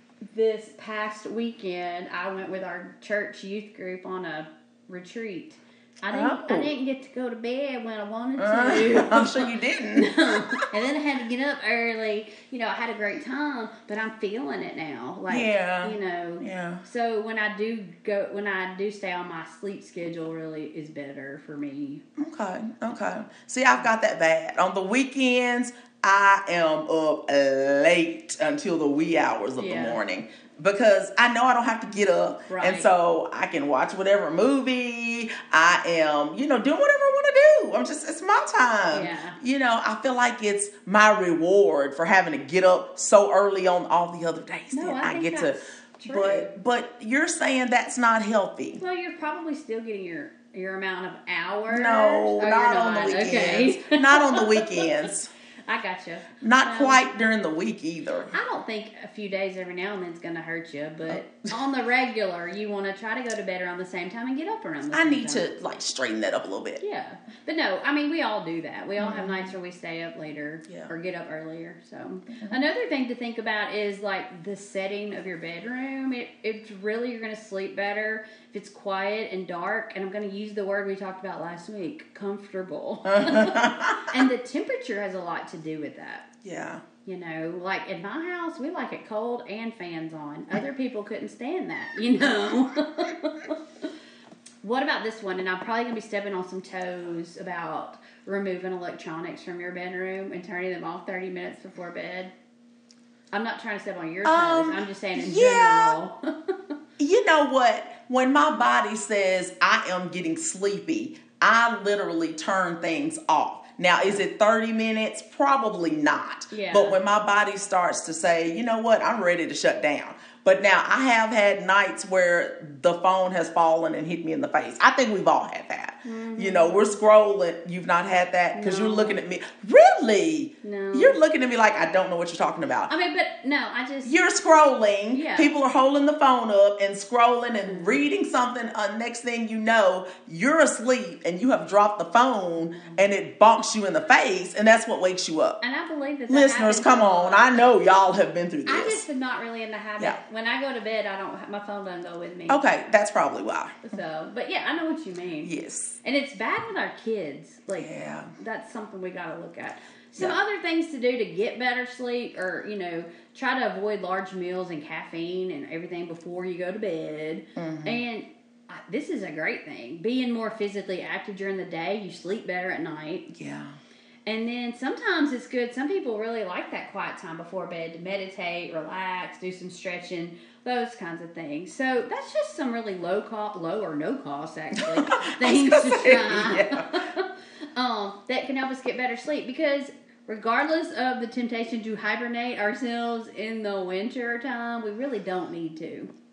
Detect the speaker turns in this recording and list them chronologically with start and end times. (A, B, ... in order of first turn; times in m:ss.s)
0:00.3-0:22.0 A
0:06.1-0:06.7 B
0:08.4-0:10.6 B
0:15.3-0:16.8 B
0:22.2-0:48.8 B
0:29.6-0:30.0 A
0:32.5-0:32.9 A
0:38.9-0:39.4 A
0:44.7-0:46.5 A
0:48.8-0:54.9 A
0:51.7-0:55.3 B
0:55.7-0:57.0 A
0:56.4-0:58.4 B
0:58.3-1:05.5 A
1:01.1-1:01.5 B
1:04.9-1:06.8 B
1:06.8-1:26.3 A
1:09.0-1:09.5 B
1:12.3-1:12.6 B
1:23.1-1:24.2 B
1:26.4-1:26.8 B
1:27.0-1:33.6 A
1:34.6-1:42.3 A
1:43.3-1:46.6 A
1:44.2-1:46.0 B
1:47.0-2:12.9 B
1:56.5-1:57.0 A
2:06.0-2:07.0 A
2:08.5-2:09.2 A
2:10.6-2:11.2 A
2:12.9-2:14.2 A
2:14.0-2:25.6 B
2:15.1-2:15.5 A
2:17.7-2:18.1 A
2:22.6-2:23.0 A
2:25.6-2:27.6 A
2:26.3-2:29.0 B
2:28.7-2:32.6 A
2:32.5-2:33.8 B
2:33.8-2:53.3 A
2:35.4-2:36.0 B
2:37.7-2:38.3 B
2:47.6-2:48.0 B
2:53.3-2:53.8 B
2:54.3-3:16.1 A
3:04.8-3:07.1 B